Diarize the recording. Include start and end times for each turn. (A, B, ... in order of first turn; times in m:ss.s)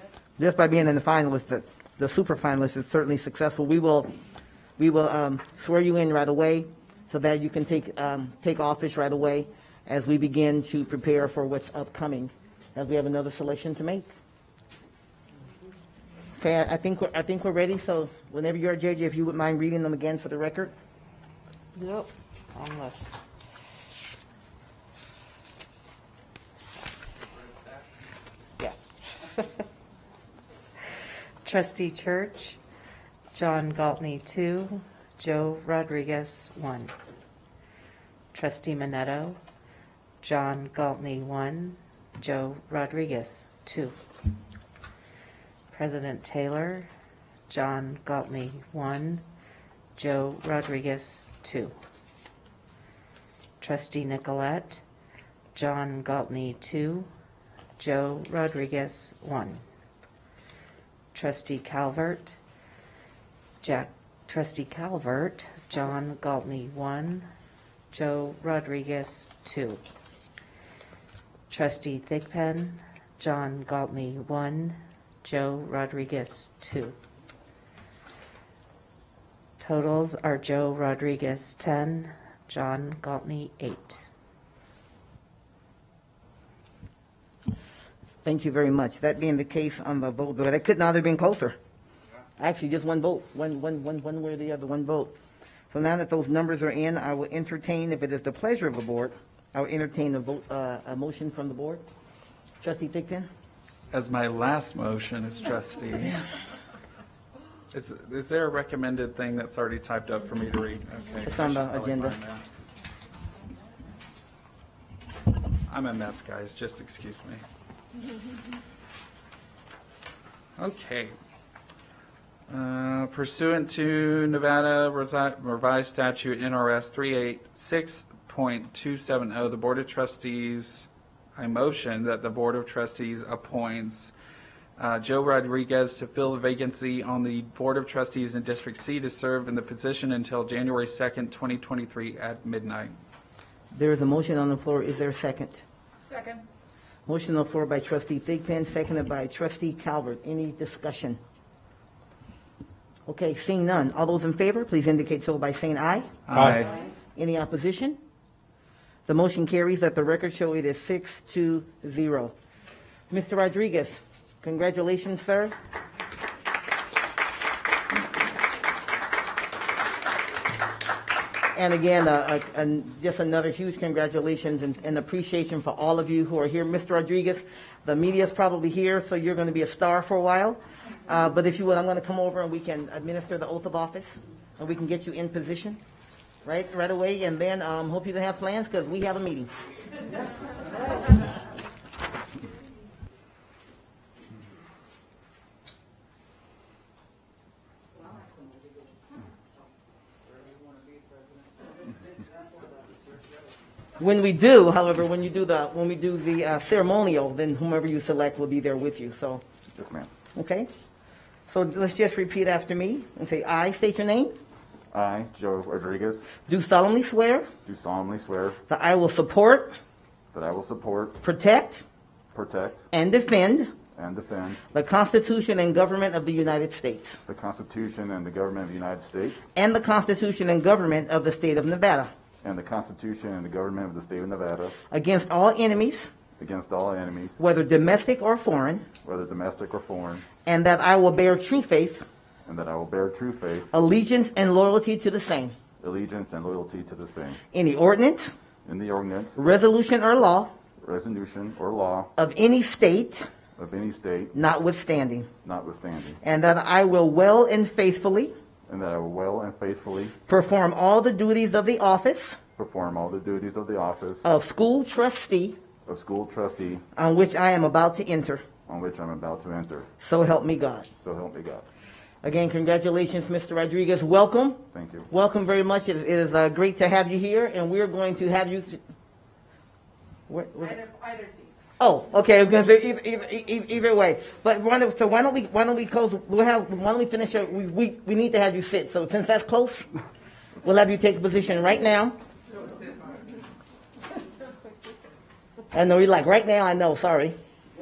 0:00.4-0:04.1 A
0:04.8-0:14.1 A
0:16.4-0:20.7 A
0:21.8-0:23.1 B
0:31.4-0:32.6 B
0:33.3-0:36.9 B
0:38.3-0:39.4 B
0:40.2-0:44.0 B
0:45.7-0:46.9 B
0:47.5-0:49.2 B
0:50.0-0:51.7 B
0:53.6-0:54.8 B
0:55.6-0:57.1 B
0:57.8-0:59.6 B
1:01.1-1:02.4 B
1:03.6-1:07.3 B
1:07.9-1:09.8 B
1:11.5-1:17.0 B
1:19.6-1:24.0 B
1:28.2-1:31.6 A
1:32.4-1:35.1 A
1:35.7-1:41.8 A
1:42.6-1:43.3 A
1:43.9-1:46.2 C
1:47.7-1:52.4 C
1:51.2-1:52.2 A
1:55.7-1:57.4 C
2:00.6-2:01.1 C
2:02.5-2:14.1 C
2:14.8-2:23.0 C
2:23.7-2:25.6 A
2:27.1-2:31.2 A
2:33.1-2:36.6 A
2:36.3-2:36.7 C
2:37.2-2:38.0 A
2:39.1-2:42.3 A
2:43.1-2:45.6 A
2:51.6-3:05.8 A
3:06.4-3:09.5 A
3:24.0-3:29.4 A
3:29.8-3:30.1 D
3:30.3-3:30.7 A
3:31.5-3:34.3 A
3:34.9-3:36.3 D
3:36.5-3:37.5 A
3:37.7-3:38.6 D
3:38.7-3:39.7 A
3:40.3-3:41.2 D
3:41.2-3:41.8 A
3:42.3-3:42.8 D
3:42.9-3:43.8 A
3:44.0-3:44.6 D
3:44.7-3:47.2 A
3:47.3-3:49.5 D
3:49.5-3:52.1 A
3:52.4-3:54.8 D
3:54.9-3:56.1 A
3:56.4-3:57.4 D
3:57.4-3:58.9 A
3:59.0-4:00.3 D
4:00.4-4:02.0 A
4:02.5-4:03.7 D
4:03.7-4:05.6 A
4:05.8-4:07.4 D
4:07.5-4:08.3 A
4:08.7-4:09.4 D
4:09.4-4:10.5 A
4:10.8-4:12.1 D
4:12.2-4:13.3 A
4:13.6-4:14.3 D
4:14.3-4:15.3 A
4:15.4-4:16.2 D
4:16.2-4:18.3 A
4:18.7-4:20.2 D
4:20.3-4:22.4 A
4:22.6-4:24.3 D
4:24.2-4:25.6 A
4:25.9-4:26.8 D
4:27.0-4:28.4 A
4:28.7-4:29.9 D
4:30.0-4:30.9 A
4:31.0-4:31.7 D
4:32.2-4:38.8 A
4:34.7-4:35.1 D
4:40.3-4:40.9 A
4:41.8-4:49.9 A
4:50.6-4:52.2 A
4:55.7-4:57.4 A